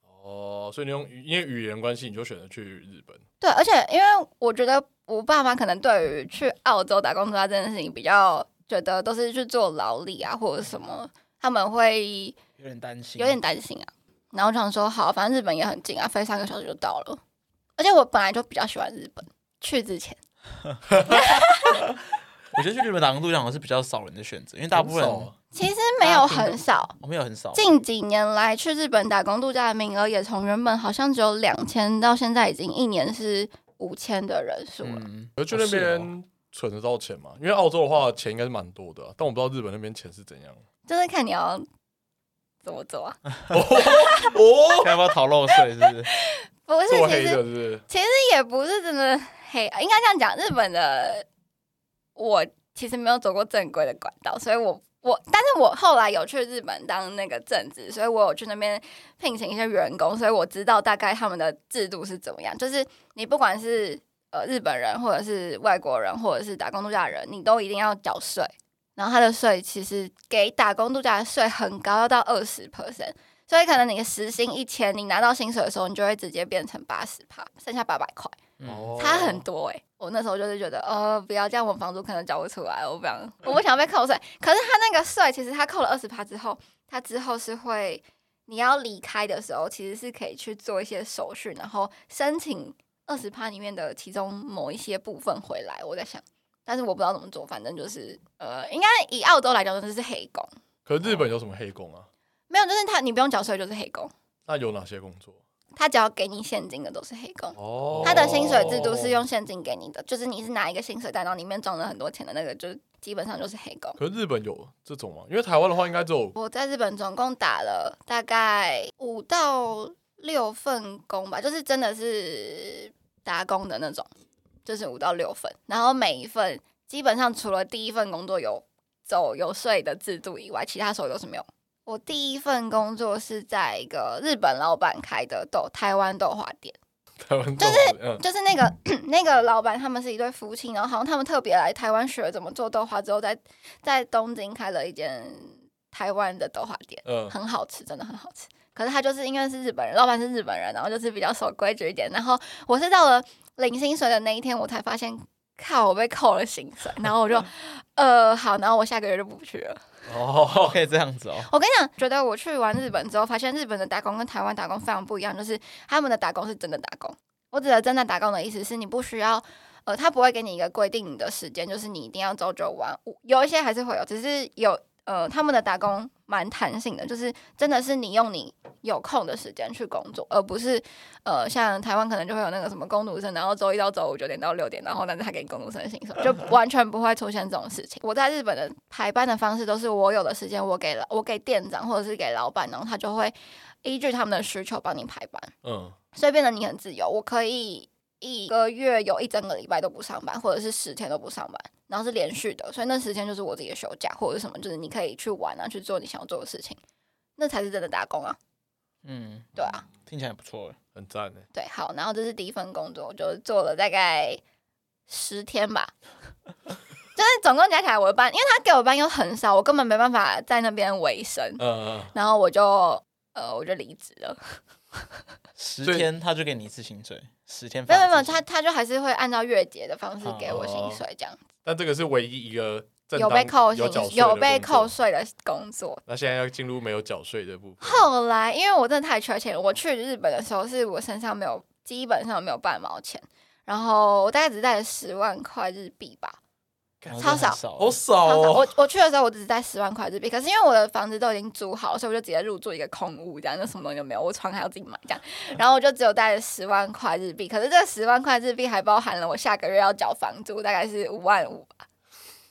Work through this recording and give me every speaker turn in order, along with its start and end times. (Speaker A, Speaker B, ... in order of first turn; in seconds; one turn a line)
Speaker A: 0.1-3.2
Speaker B: 3.4-12.4
Speaker C: 12.6-13.4
Speaker B: 13.2-17.2
Speaker B: 17.8-20.2
Speaker B: 21.1-21.8
Speaker C: 22.5-25.3
Speaker A: 24.7-25.3
Speaker B: 25.5-26.9
Speaker C: 26.0-27.7
Speaker B: 27.5-35.0
Speaker C: 34.8-36.1
Speaker A: 35.4-40.6
Speaker B: 40.9-41.6
Speaker B: 42.6-44.4
Speaker A: 43.5-45.0
Speaker C: 44.8-46.1
Speaker B: 46.1-51.2
Speaker A: 46.9-47.8
Speaker B: 52.1-78.4
Speaker C: 78.6-79.2
Speaker A: 78.6-79.4
Speaker B: 79.0-100.5
Speaker A: 100.8-102.1
Speaker B: 102.5-104.1
Speaker A: 104.5-105.4
Speaker B: 105.8-114.0
Speaker A: 107.5-109.2
Speaker C: 107.9-108.5
Speaker A: 114.0-116.3
Speaker B: 116.3-124.1
Speaker B: 124.7-136.8
Speaker A: 137.2-138.2
Speaker B: 137.6-159.8
Speaker A: 147.1-147.3
Speaker A: 160.1-160.8
Speaker C: 160.6-161.5
Speaker B: 161.4-195.5
Speaker A: 195.6-195.9
Speaker B: 196.1-206.8
Speaker B: 207.4-208.4
Speaker C: 209.0-210.8
Speaker B: 209.6-209.8
Speaker A: 210.9-211.4
Speaker B: 211.5-214.4
Speaker B: 215.1-215.9
Speaker B: 217.2-224.6
Speaker A: 221.6-222.1
Speaker C: 225.6-228.4
Speaker B: 227.9-231.4
Speaker C: 230.2-230.6
Speaker A: 230.4-231.0
Speaker A: 231.6-234.9
Speaker B: 233.1-236.0
Speaker A: 236.1-238.0
Speaker B: 237.8-246.4
Speaker A: 247.0-248.7
Speaker C: 247.1-248.0
Speaker B: 247.2-247.6
Speaker B: 248.2-261.7